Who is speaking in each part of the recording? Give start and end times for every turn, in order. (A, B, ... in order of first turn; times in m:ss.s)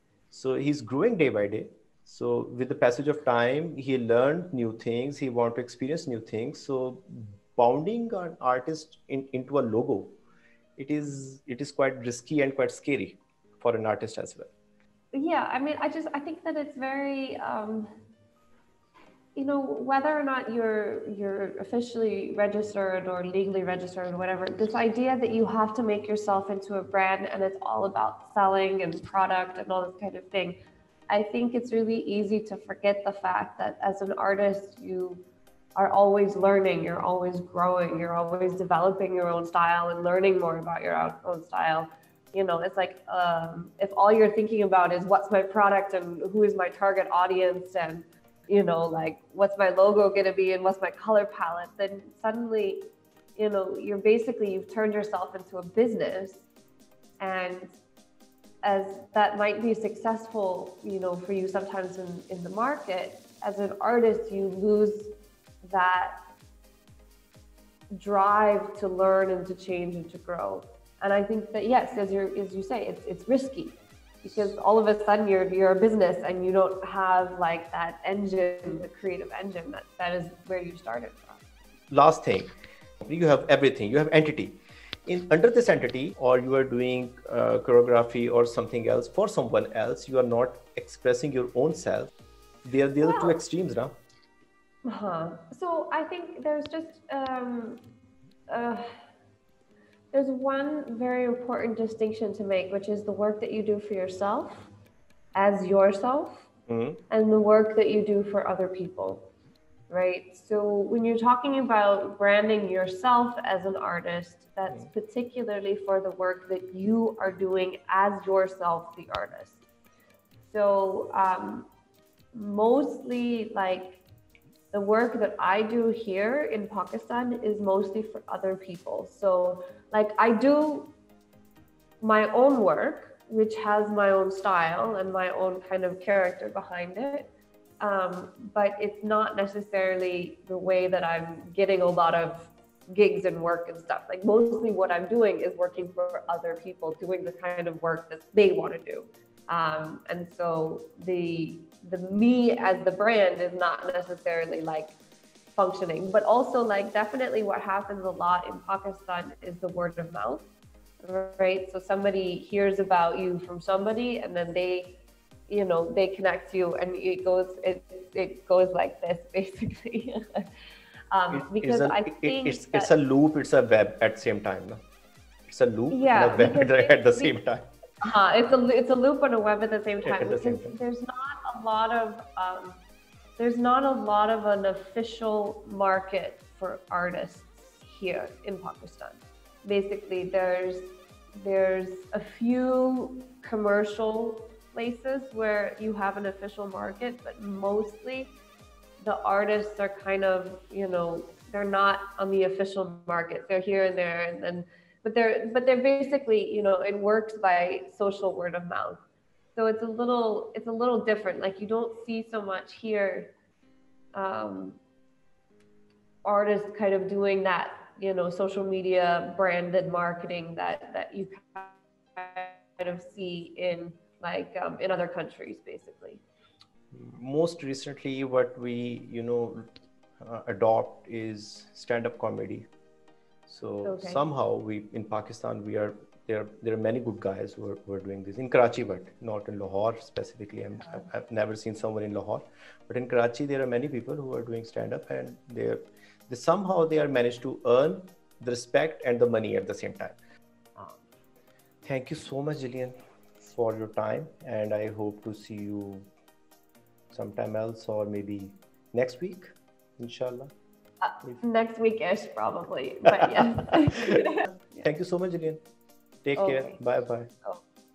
0:00.3-0:10.2 A
0:10.8-0:14.5 A
0:15.1-0:17.9 B
0:19.4-0:30.6 B
0:31.1-0:35.2 B
0:35.8-0:56.4 B
0:57.2-0:57.7 B
0:58.6-1:06.2 B
1:07.9-1:21.4 B
1:21.9-1:22.5 A
1:23.0-1:32.1 A
1:32.6-1:33.9 A
1:33.0-1:33.4 B
1:34.8-1:37.8 B
1:38.5-1:39.0 B
1:40.1-1:44.7 B
1:45.4-1:46.5 B
1:46.7-1:47.0 A
1:47.1-1:49.3 B
1:49.9-1:59.6 B
2:00.4-2:01.7 B
2:02.3-2:04.0 B
2:04.7-2:10.9 B
2:12.0-2:35.0 B
2:35.6-2:40.5 B
2:41.0-2:50.5 B
2:51.1-2:52.9 B
2:51.3-2:54.8 A
2:55.5-2:57.7 A
2:55.9-2:57.4 B
2:58.0-3:02.8 B
3:00.0-3:00.7 A
3:03.4-3:18.3 B
3:19.0-3:29.0 B
3:29.6-3:33.3 B
3:34.2-3:34.8 B
3:36.2-3:46.2 B
3:46.9-3:52.7 A
3:53.5-4:10.2 A
3:53.8-3:54.2 B
4:10.8-4:11.0 B
4:11.8-4:16.1 A
4:17.1-4:20.5 A
4:21.0-4:24.8 B
4:23.1-4:24.3 A
4:24.8-4:25.6 A
4:26.2-4:27.3 A
4:26.4-4:26.8 B